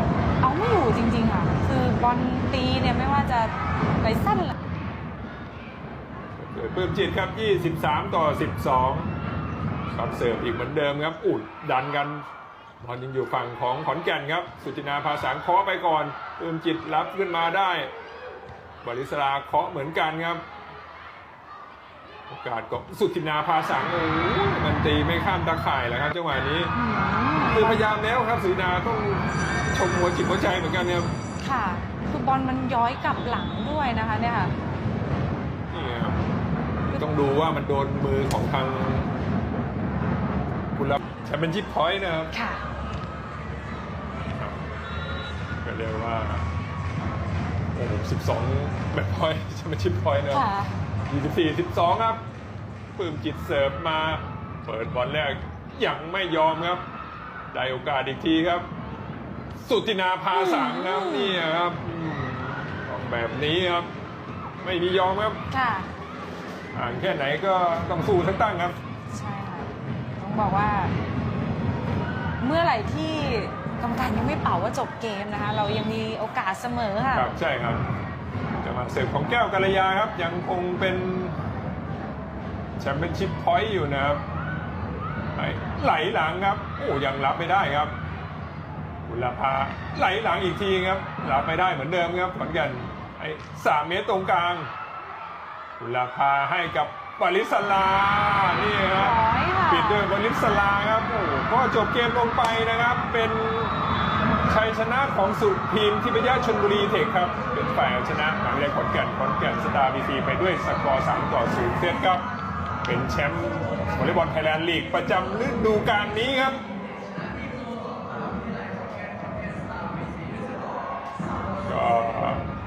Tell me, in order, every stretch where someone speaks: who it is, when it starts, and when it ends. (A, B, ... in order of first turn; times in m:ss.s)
0:00.4-0:04.6 A
0:06.4-0:09.1 B
0:09.9-0:12.2 B
0:12.8-0:17.9 B
0:18.8-0:20.4 B
0:22.3-0:26.8 B
0:26.7-0:27.8 A
0:27.5-0:31.1 B
0:31.4-0:34.5 A
0:35.7-0:36.2 B
0:36.9-0:39.2 B
0:40.7-0:42.3 B
0:42.3-0:42.6 A
0:44.2-0:44.6 B
0:45.6-0:46.5 B
0:47.7-0:50.5 B
0:50.3-0:50.8 A
0:51.1-0:52.2 B
0:53.0-0:56.8 B
0:57.5-0:58.7 B
0:59.6-1:03.9 B
1:00.3-1:01.4 A
1:04.6-1:05.4 B
1:05.5-1:05.9 A
1:06.7-1:08.8 B
1:09.1-1:10.9 A
1:12.4-1:17.3 A
1:17.1-1:17.8 B
1:18.6-1:21.4 B
1:22.8-1:24.2 B
1:25.4-1:28.0 B
1:29.0-1:34.7 B
1:35.8-1:43.8 B
1:38.9-1:40.1 A
1:44.5-1:52.3 B
1:52.8-1:56.6 B
2:01.7-2:02.5 B